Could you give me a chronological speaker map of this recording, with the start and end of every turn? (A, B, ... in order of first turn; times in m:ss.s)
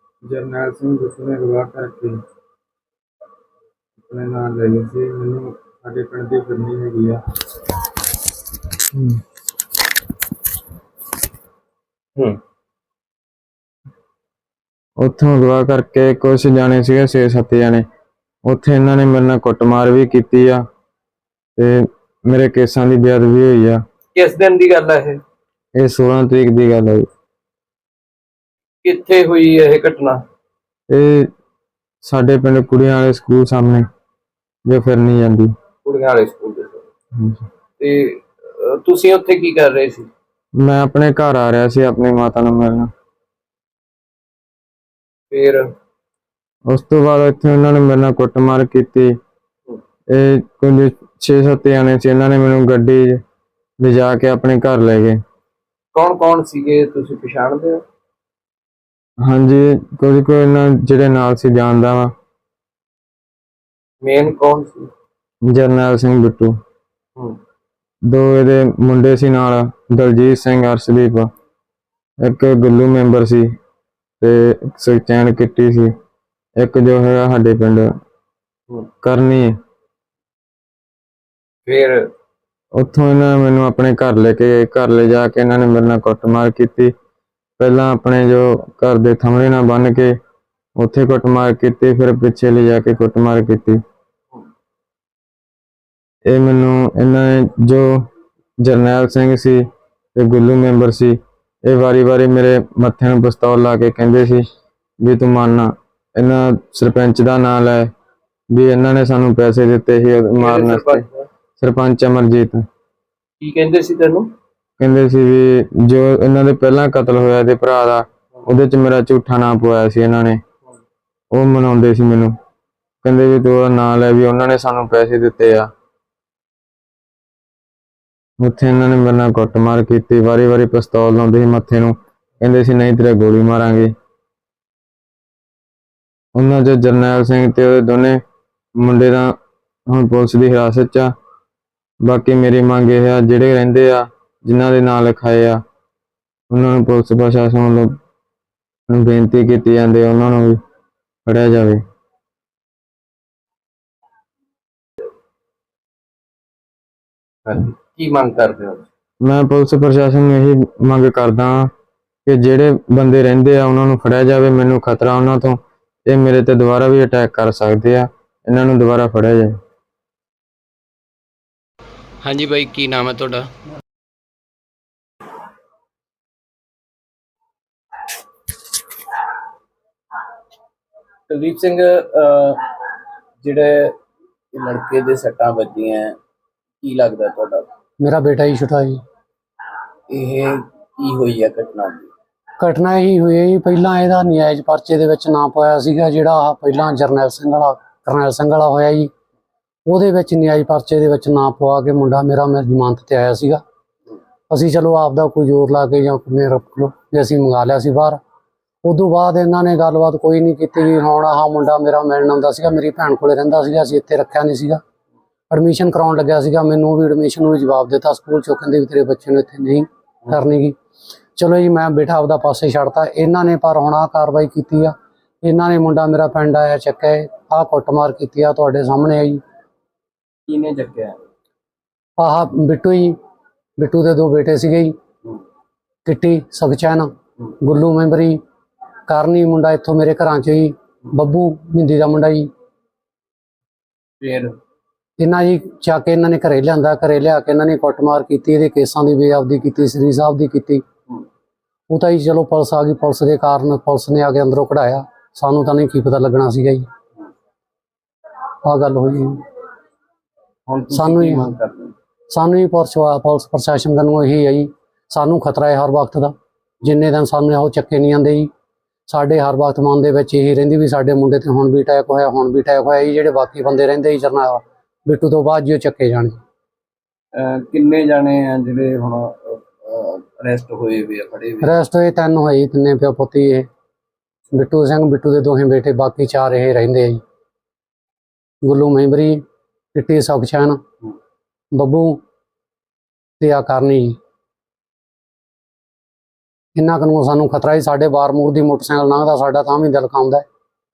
0:00.3-0:02.2 A
0:04.0-0:07.2 A
0:15.0-0:17.8 A
0:18.4-0:20.6 A
0:21.6-0:23.8 A
0:24.1-0:25.2 B
0:25.7-0:27.1 A
0:28.8-0:30.2 B
0:30.9-0:31.3 A
0:32.0-0:33.8 A
0:34.7-0:35.5 A
0:35.8-0:36.8 B
0:37.2-0:37.4 A
0:37.8-0:40.1 B
0:40.6-0:42.9 A
0:45.3-0:45.7 B
0:46.7-0:49.1 A
0:50.1-0:53.2 A
0:53.8-0:55.2 A
0:55.9-0:57.8 B
0:59.2-1:02.1 A
1:04.0-1:04.9 B
1:05.5-1:06.6 A
1:08.0-1:11.3 A
1:12.2-1:13.5 A
1:14.2-1:15.9 A
1:16.6-1:17.9 A
1:19.0-1:19.5 A
1:21.7-1:22.0 B
1:22.8-1:26.9 A
1:27.6-1:30.1 A
1:30.8-1:33.8 A
1:36.3-1:38.0 A
1:38.6-1:39.6 A
1:40.1-1:44.4 A
1:45.0-1:47.9 A
1:48.5-1:51.0 A
1:50.4-1:51.2 B
1:51.6-1:52.6 A
1:53.4-1:54.3 B
1:54.8-2:00.4 A
2:01.3-2:02.3 A
2:03.0-2:05.7 A
2:08.4-2:13.9 A
2:16.3-2:18.2 A
2:18.8-2:19.3 A
2:19.9-2:21.1 A
2:22.0-2:25.6 A
2:26.5-2:28.0 A
2:28.9-2:30.6 A
2:31.2-2:31.8 A
2:37.4-2:38.8 B
2:39.2-2:41.7 A
2:42.2-2:49.5 A
2:52.2-2:53.5 B
3:01.3-3:02.6 B
3:03.4-3:03.9 B
3:04.5-3:06.2 B
3:06.8-3:07.7 B
3:08.0-3:09.0 C
3:10.1-3:12.1 B
3:12.6-3:19.1 C
3:19.9-3:23.6 C
3:24.5-3:28.2 C
3:28.8-3:34.8 C
3:35.5-3:40.7 C
3:41.4-3:49.4 C
3:50.5-3:51.2 B
3:52.2-3:53.2 C
3:53.8-3:54.9 C
3:56.0-3:58.4 C
3:59.1-4:02.5 C
4:04.2-4:04.5 B
4:05.2-4:10.8 C
4:11.9-4:16.9 C
4:18.6-4:19.4 C
4:20.7-4:21.9 B
4:20.9-4:21.5 C
4:22.3-4:28.5 C
4:29.1-4:36.4 C
4:37.3-4:41.8 B
4:41.6-4:43.7 C
4:44.5-4:47.2 C
4:48.6-4:49.4 C
4:49.9-4:50.8 C
4:51.7-4:52.2 C
4:53.4-4:54.2 C
4:56.8-5:00.4 C